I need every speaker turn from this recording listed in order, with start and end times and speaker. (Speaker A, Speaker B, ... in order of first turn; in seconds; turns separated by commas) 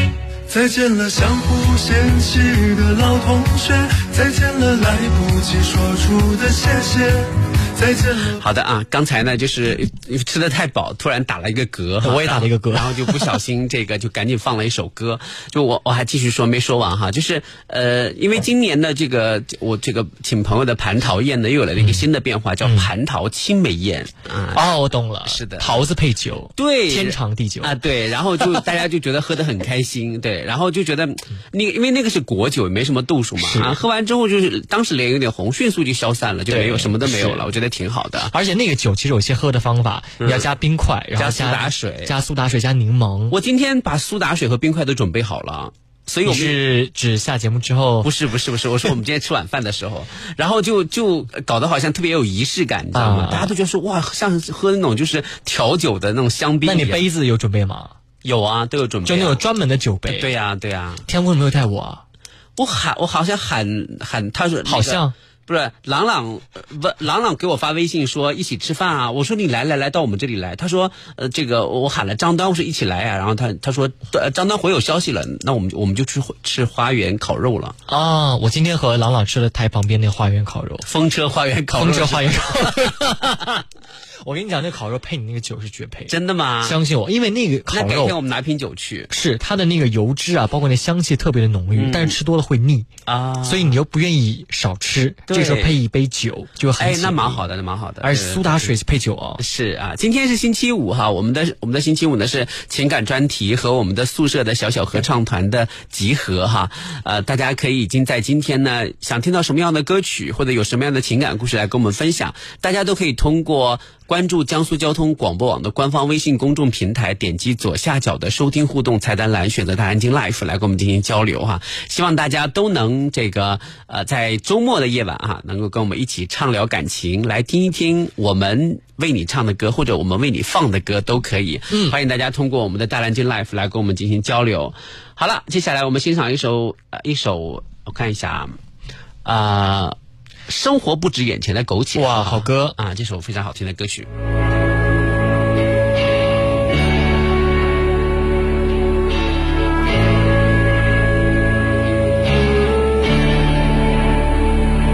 Speaker A: 0.5-8.4, Speaker B: 8.4-25.8, Speaker C: 12.0-13.2, Speaker C: 21.8-22.0, Speaker C: 22.6-22.9, Speaker C: 24.5-27.8, Speaker B: 26.6-38.3, Speaker C: 33.4-33.8, Speaker C: 36.5-37.4, Speaker C: 38.3-43.4, Speaker B: 41.2-42.1, Speaker B: 43.3-46.6, Speaker C: 46.2-48.1, Speaker B: 48.0-57.0, Speaker C: 52.9-53.5, Speaker C: 56.6-57.9, Speaker B: 58.2-59.4, Speaker C: 59.1-60.3, Speaker B: 60.1-61.0, Speaker C: 61.1-62.0, Speaker B: 62.6-77.8, Speaker C: 64.7-65.1, Speaker C: 77.9-80.8, Speaker B: 80.9-83.2, Speaker C: 81.7-83.1, Speaker C: 84.2-88.1, Speaker B: 86.1-86.8, Speaker B: 87.7-89.1, Speaker C: 89.1-92.9, Speaker B: 91.7-92.2, Speaker B: 93.1-93.8, Speaker C: 93.4-97.4, Speaker B: 95.3-95.8, Speaker B: 96.8-98.7, Speaker C: 98.0-99.4, Speaker B: 99.4-138.6, Speaker C: 131.7-131.9, Speaker B: 139.2-139.9, Speaker B: 140.5-144.1, Speaker C: 141.9-142.8